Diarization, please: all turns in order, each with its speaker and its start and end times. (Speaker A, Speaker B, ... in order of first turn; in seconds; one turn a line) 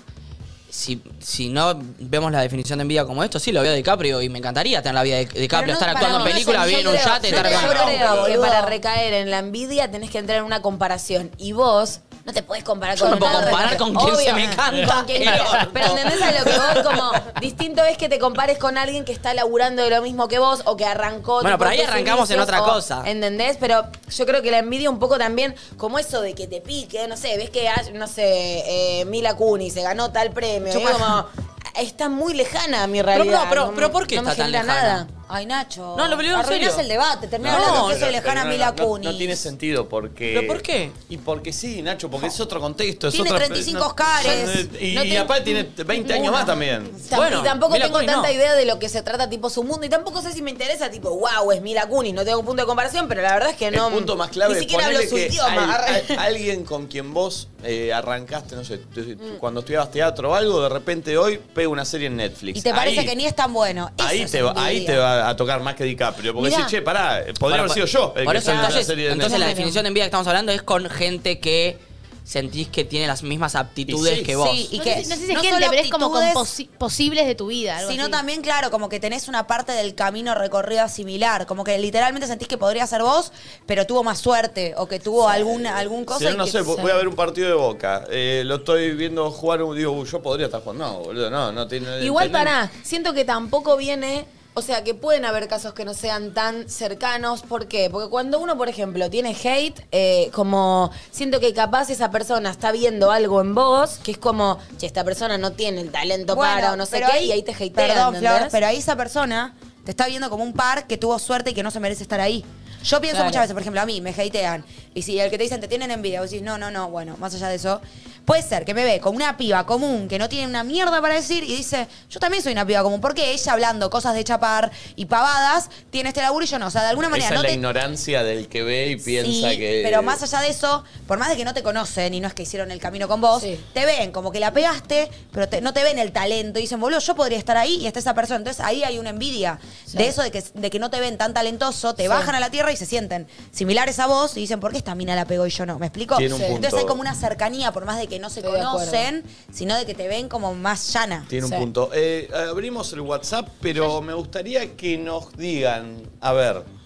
Speaker A: 0.7-7.9
Speaker B: 5.5-8.8
Speaker C: 5.9-35.1
Speaker D: 7.2-8.4
Speaker A: 13.0-17.0
Speaker A: 21.4-23.1
Speaker A: 30.7-31.2
Speaker A: 33.1-35.1
Speaker B: 35.1-39.5
Speaker A: 36.0-36.9
Speaker D: 37.4-47.1
Speaker A: 37.5-38.0
Speaker A: 40.3-41.0
Speaker B: 43.1-44.7
Speaker C: 44.2-46.5
Speaker B: 46.1-46.5
Speaker C: 47.0-56.2
Speaker A: 47.1-48.3
Speaker D: 53.7-63.1
Speaker B: 62.5-65.0
Speaker D: 64.0-69.7
Speaker A: 67.5-74.7
Speaker B: 68.4-68.8
Speaker C: 69.3-69.6
Speaker D: 73.9-74.3
Speaker B: 74.3-76.5
Speaker E: 74.7-78.2
Speaker B: 77.8-87.0
Speaker D: 85.3-92.5
Speaker C: 92.0-108.6
Speaker B: 106.3-127.6
Speaker C: 113.1-113.5
Speaker D: 127.1-130.2
Speaker B: 129.1-151.3
Speaker C: 133.4-133.6
Speaker C: 142.0-142.3
Speaker D: 146.1-147.0
Speaker C: 146.3-146.6
Speaker C: 148.4-149.1
Speaker D: 151.3-156.7
Speaker C: 151.4-151.7